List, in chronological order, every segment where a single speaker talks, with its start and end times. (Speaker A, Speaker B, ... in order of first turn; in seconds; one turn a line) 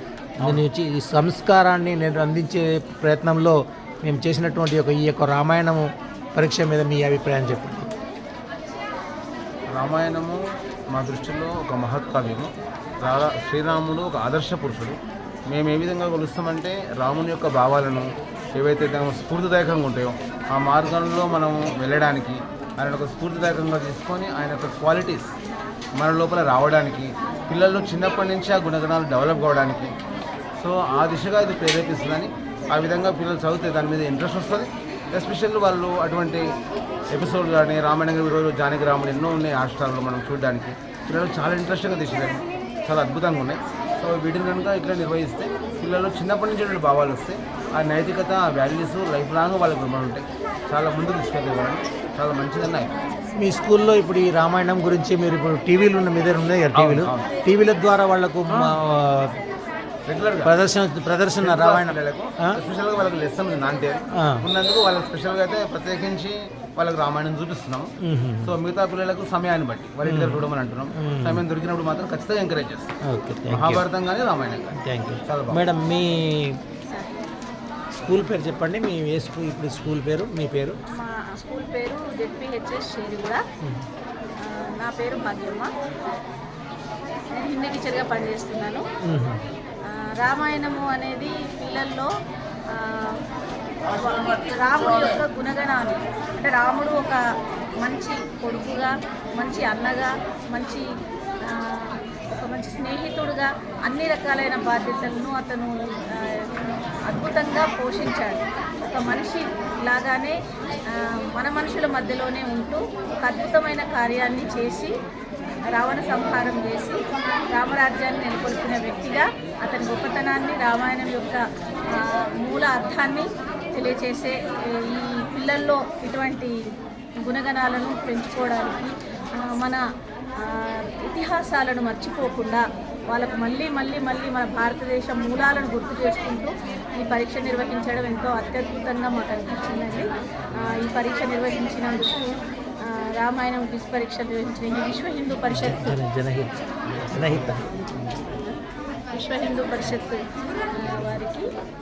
Speaker A: 0.4-7.9
Speaker B: 9.7-12.5
Speaker B: 13.0-15.0
Speaker B: 15.5-25.3
Speaker B: 25.9-29.9
Speaker B: 30.6-36.5
Speaker B: 37.1-52.9
Speaker A: 53.4-59.3
Speaker B: 56.7-57.3
Speaker B: 58.5-58.7
Speaker B: 60.0-60.5
Speaker A: 60.4-62.6
Speaker B: 61.4-67.9
Speaker A: 64.2-64.4
Speaker A: 68.0-68.5
Speaker B: 68.4-72.9
Speaker A: 70.0-70.4
Speaker A: 70.9-71.4
Speaker A: 73.0-73.8
Speaker B: 73.5-75.6
Speaker A: 74.8-76.6
Speaker C: 76.9-77.2
Speaker A: 78.0-80.8
Speaker C: 80.9-83.4
Speaker C: 84.4-85.7
Speaker C: 87.3-88.8
Speaker A: 89.0-89.4
Speaker C: 89.9-92.1
Speaker C: 92.7-93.2
Speaker C: 93.9-97.2
Speaker C: 97.8-100.8
Speaker C: 101.5-106.5
Speaker C: 107.0-114.9
Speaker C: 115.8-117.0
Speaker C: 117.5-126.6
Speaker C: 127.2-129.8
Speaker C: 130.4-142.2
Speaker C: 142.8-146.0
Speaker A: 145.5-148.1
Speaker C: 148.1-148.6
Speaker C: 149.1-151.5